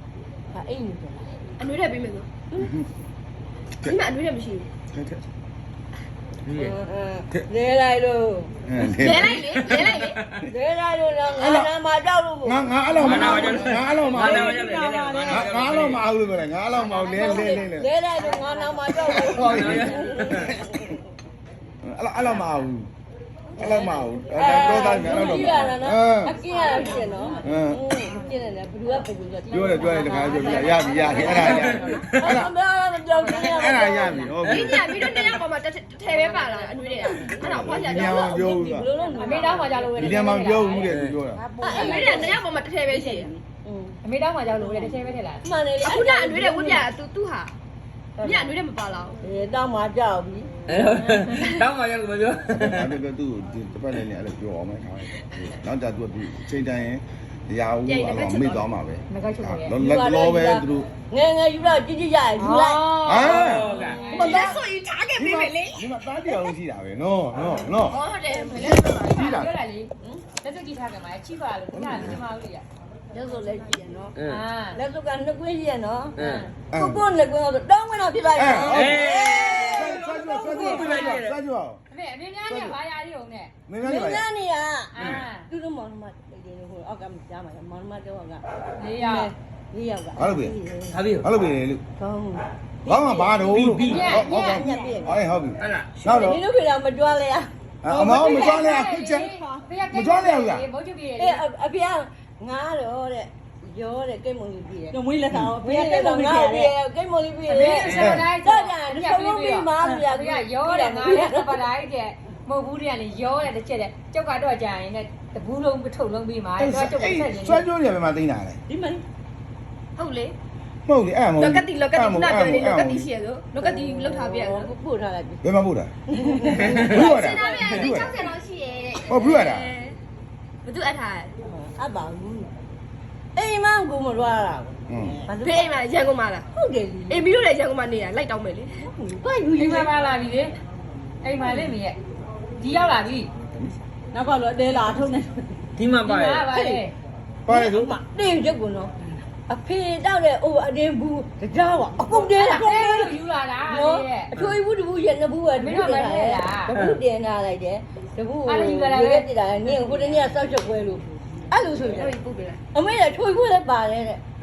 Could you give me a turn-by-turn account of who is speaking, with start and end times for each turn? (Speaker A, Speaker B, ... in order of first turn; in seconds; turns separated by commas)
Speaker A: 0.5-1.5, Speaker B: 1.6-2.3, Speaker B: 3.8-4.7, Speaker C: 4.9-5.2, Speaker D: 6.5-6.7, Speaker A: 6.5-8.5, Speaker C: 8.7-9.4, Speaker B: 8.8-10.2, Speaker D: 9.2-10.4, Speaker A: 10.5-13.7, Speaker C: 11.3-11.7, Speaker C: 12.4-14.6, Speaker D: 13.0-16.0, Speaker E: 14.2-15.6, Speaker C: 15.2-17.9, Speaker A: 16.8-21.0, Speaker E: 17.2-17.6, Speaker E: 18.4-19.5, Speaker C: 19.1-20.6, Speaker D: 19.5-20.5, Speaker C: 21.8-22.9, Speaker C: 23.5-26.3, Speaker A: 23.6-34.3, Speaker E: 26.6-27.2, Speaker C: 27.4-27.8, Speaker C: 29.5-32.5, Speaker F: 29.8-31.2, Speaker B: 30.7-31.5, Speaker E: 31.0-31.3, Speaker D: 31.3-32.4, Speaker F: 33.2-34.0, Speaker C: 33.4-35.2, Speaker B: 34.4-38.5, Speaker A: 37.2-40.2, Speaker C: 37.4-38.9, Speaker F: 39.2-40.9, Speaker C: 40.0-41.4, Speaker D: 40.9-41.2, Speaker E: 41.3-42.4, Speaker A: 41.5-42.4, Speaker B: 41.6-43.3, Speaker A: 42.9-44.0, Speaker F: 44.0-45.4, Speaker A: 44.6-46.9, Speaker B: 45.8-47.5, Speaker A: 48.2-48.5, Speaker B: 48.2-49.2, Speaker A: 49.2-50.6, Speaker D: 50.7-52.9, Speaker C: 52.5-60.9, Speaker B: 57.9-58.7, Speaker F: 59.1-59.7, Speaker A: 59.7-63.0, Speaker F: 62.4-64.5, Speaker C: 63.0-63.7, Speaker D: 63.2-64.2, Speaker B: 64.1-66.5, Speaker A: 64.2-64.5, Speaker C: 65.2-68.0, Speaker B: 67.9-69.1, Speaker C: 68.5-69.5, Speaker F: 68.6-72.6, Speaker C: 71.7-72.2, Speaker A: 73.1-74.1, Speaker D: 74.1-74.4, Speaker F: 74.2-74.8, Speaker A: 74.7-76.2, Speaker D: 76.2-76.5, Speaker F: 76.2-76.5, Speaker C: 76.7-77.0, Speaker A: 76.7-80.0, Speaker C: 78.3-79.1, Speaker D: 78.6-81.4, Speaker C: 79.6-81.8, Speaker F: 80.3-81.2, Speaker F: 81.9-83.5, Speaker C: 82.5-82.8, Speaker C: 83.7-84.2, Speaker A: 83.8-88.4, Speaker F: 84.9-85.5, Speaker F: 88.8-89.3, Speaker A: 89.0-91.0, Speaker C: 90.2-90.5, Speaker D: 90.9-91.2, Speaker C: 91.2-91.8, Speaker A: 92.0-95.2, Speaker C: 92.9-96.4, Speaker D: 93.5-94.1, Speaker F: 93.8-94.8, Speaker D: 95.6-96.0, Speaker A: 96.0-97.5, Speaker C: 97.8-99.3, Speaker F: 97.9-101.4, Speaker E: 98.0-98.6, Speaker E: 99.3-99.6, Speaker C: 99.9-100.7, Speaker A: 101.2-105.0, Speaker E: 104.9-106.7, Speaker A: 105.5-111.6, Speaker F: 107.5-117.7, Speaker C: 107.9-108.3, Speaker C: 116.6-118.6, Speaker E: 118.7-119.0, Speaker B: 120.0-120.3, Speaker C: 120.8-123.1, Speaker B: 121.4-124.7, Speaker A: 123.6-125.4, Speaker C: 125.4-125.9, Speaker A: 126.1-127.8, Speaker B: 126.7-129.9, Speaker C: 126.8-128.2, Speaker C: 129.0-129.7, Speaker B: 130.6-131.3, Speaker A: 131.4-132.5, Speaker A: 133.3-135.7, Speaker C: 134.9-135.2, Speaker B: 135.3-136.4, Speaker A: 136.5-137.2, Speaker B: 137.1-138.9, Speaker A: 138.9-139.9, Speaker F: 139.6-140.5, Speaker F: 141.2-142.0, Speaker F: 142.6-143.3, Speaker E: 144.1-145.4, Speaker D: 145.8-146.5, Speaker F: 146.0-146.9, Speaker A: 146.5-146.8, Speaker C: 147.5-147.9, Speaker A: 147.5-153.2, Speaker F: 152.3-154.3, Speaker A: 153.7-162.1, Speaker F: 155.5-156.7, Speaker D: 156.7-157.0, Speaker F: 158.4-159.2, Speaker B: 161.8-162.6, Speaker A: 162.7-164.2